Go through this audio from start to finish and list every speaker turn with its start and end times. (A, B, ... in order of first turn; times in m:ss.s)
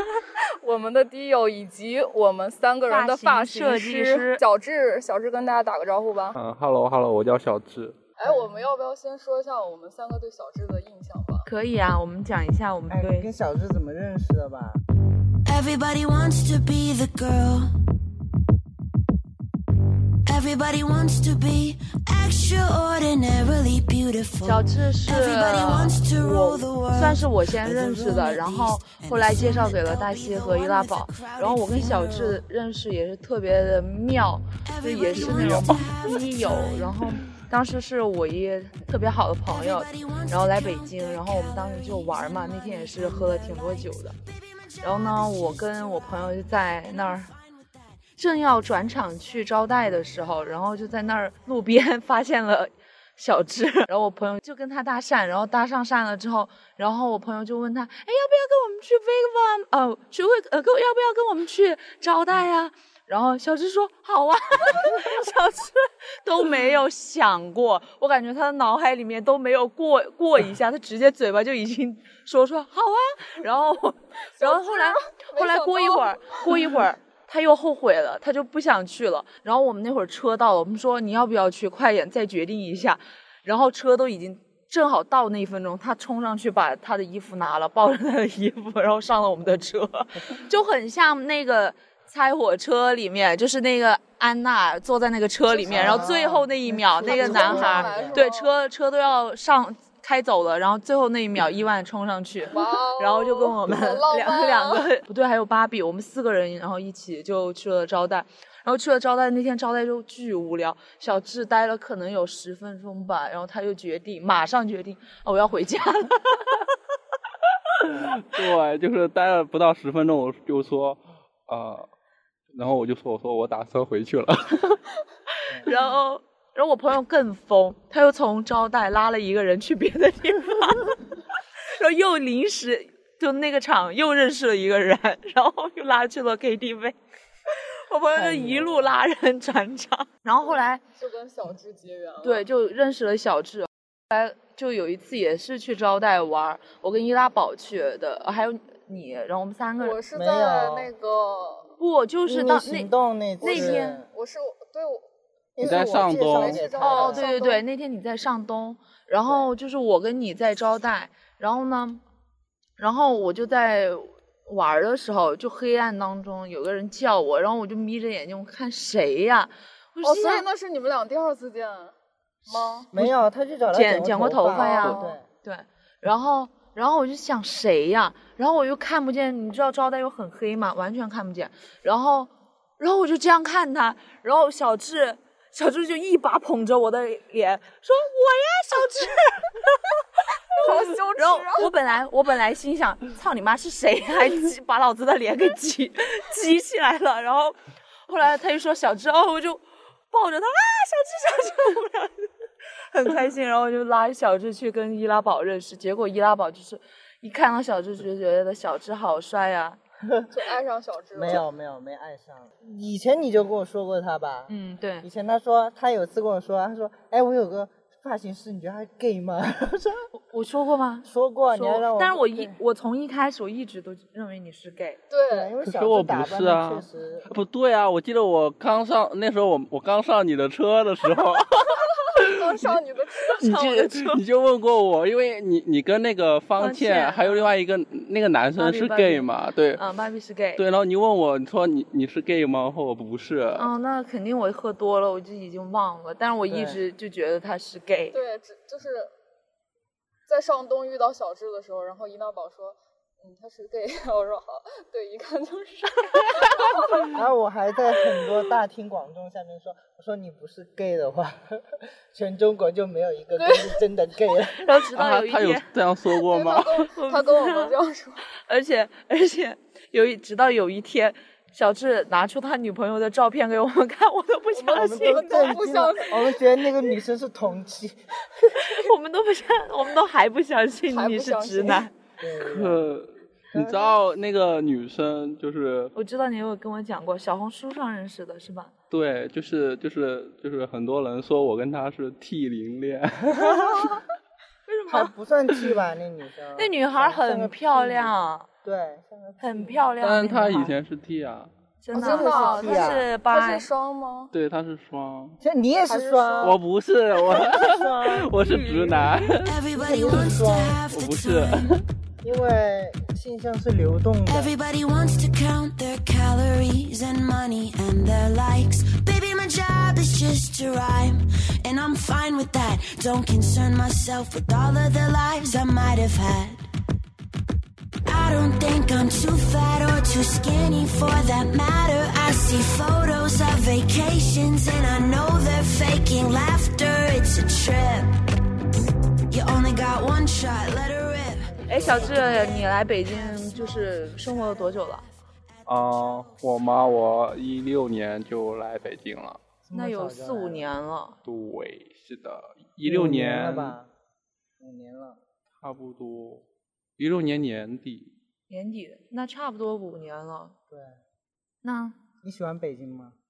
0:00.6-0:06.3 A
0:02.9-0:04.4 B
0:06.3-0:08.0 C
0:08.2-0:11.5 A
0:08.2-0:08.7 D
0:11.4-0:13.3 B
0:12.9-0:14.8 D
0:15.4-0:17.7 E
0:20.2-0:32.4 E
0:24.4-0:44.1 B
0:34.6-0:37.3 E
0:35.0-0:35.8 C
0:39.5-0:50.6 E
0:44.8-0:47.3 B
0:48.2-1:56.6 B
1:14.4-1:16.7 A
1:35.5-1:36.2 A
1:35.7-1:38.2 D
1:36.7-1:38.5 A
1:42.5-1:44.9 A
1:57.8-2:01.9 C
2:02.5-2:04.8 C
2:05.6-2:11.2 B
2:11.7-2:17.0 B
2:17.5-2:20.8 B
2:18.1-2:18.9 D
2:21.0-2:22.4 A
2:22.2-2:30.0 B
2:29.8-2:31.7 A
2:30.1-2:30.9 D
2:31.8-2:34.0 B
2:32.2-2:34.1 D
2:33.4-2:35.0 A
2:35.6-2:37.3 D
2:35.6-2:36.7 C
2:35.6-2:37.6 A
2:36.9-2:42.0 B
2:42.8-2:50.4 B
2:50.0-2:51.9 A
2:52.5-2:53.1 B
2:52.5-2:52.9 A
2:52.9-2:55.2 D
2:53.7-3:09.8 B
2:54.5-2:55.2 A
3:10.5-3:22.3 B
3:10.6-3:11.7 A
3:22.9-3:29.8 B
3:30.3-3:31.4 A
3:31.1-3:40.0 D
3:34.5-3:35.1 B
3:40.2-3:45.0 B
3:41.0-3:42.6 D
3:45.1-3:45.5 A
3:45.3-3:47.3 D
3:45.6-3:52.8 C
3:52.2-3:53.6 A
3:53.4-3:59.8 C
3:53.4-3:54.2 B
3:56.6-3:57.5 B
3:58.6-4:00.6 B
4:00.6-4:03.7 C
4:03.6-4:08.2 B
4:06.5-4:06.8 D
4:08.1-4:09.1 A
4:10.3-4:17.2 A
4:17.1-4:24.6 D
4:23.4-4:23.8 A
4:24.6-4:25.7 B
4:24.9-4:26.9 C
4:26.2-4:28.2 A
4:26.9-4:27.8 B
4:28.4-4:35.6 B
4:34.5-4:36.4 A
4:34.7-4:38.8 D
4:38.6-4:41.9 B
4:40.9-4:41.9 A
4:42.2-4:42.9 D
4:42.4-4:45.9 C
4:43.5-4:44.0 D
4:45.9-4:48.7 B
4:48.9-4:54.0 C
4:54.6-4:55.1 B
4:54.9-4:59.8 D
4:56.6-4:58.5 B
4:59.4-5:00.7 B
5:00.0-5:01.5 C
5:01.8-5:03.7 B
5:01.9-5:03.0 D
5:01.9-5:04.3 A
5:04.3-5:05.4 C
5:05.4-5:06.6 D
5:05.8-5:06.6 A
5:06.4-5:09.6 C
5:07.2-5:09.0 D
5:07.8-5:09.3 B
5:09.4-5:11.8 E
5:09.7-5:10.8 D
5:10.9-5:11.8 C
5:12.2-5:14.5 D
5:14.3-5:26.7 E
5:28.0-5:38.2 E
5:39.3-5:46.7 E
5:41.5-5:42.5 D
5:41.6-5:45.0 B
5:45.6-5:49.4 C
5:49.6-5:50.6 D
5:49.7-5:51.2 B
5:51.2-5:53.8 C
5:52.8-5:53.9 D
5:54.6-5:55.2 D
5:55.6-5:56.4 C
5:57.0-5:58.1 C
5:58.5-6:00.5 B
6:00.7-6:01.0 D
6:01.6-6:02.0 B
6:02.2-6:03.1 D